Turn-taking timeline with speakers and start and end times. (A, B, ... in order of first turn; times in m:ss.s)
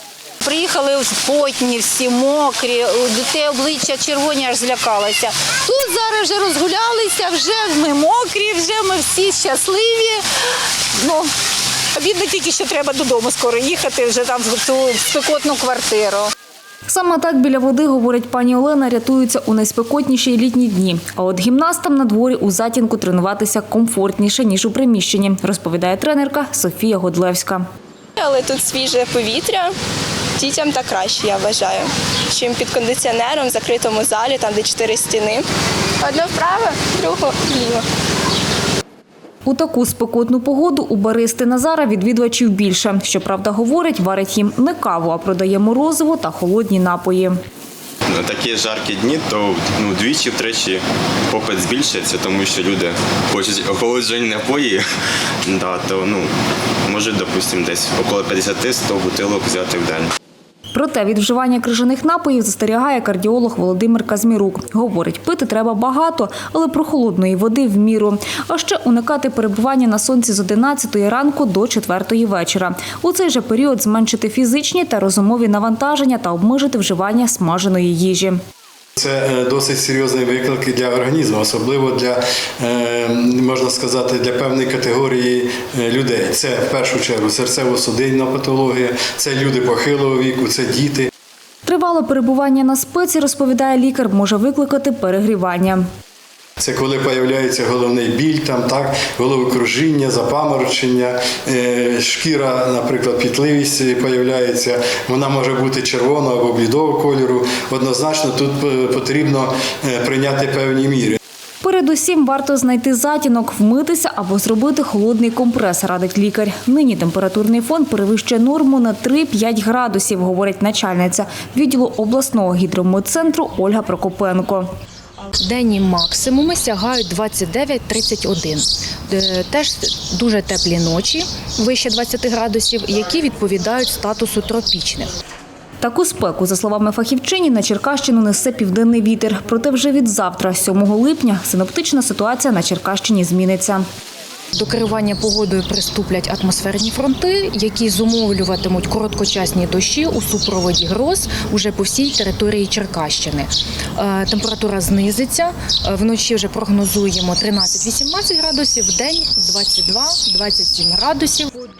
0:00.4-0:11.3 A
0:11.9-0:16.3 A
0:16.9-0:27.6 B
0:28.2-0:29.7 C
0:30.4-0:35.4 C
0:36.0-0:37.8 C
0:39.4-0:47.4 B
0:48.1-0:54.8 D
0:55.4-1:00.1 D
1:00.7-1:18.4 B
1:19.0-1:31.1 E
1:31.6-1:35.8 B
1:36.6-1:51.2 E
1:51.6-2:04.7 B
2:05.4-2:15.1 F
2:15.8-2:23.8 B
2:24.5-2:41.6 F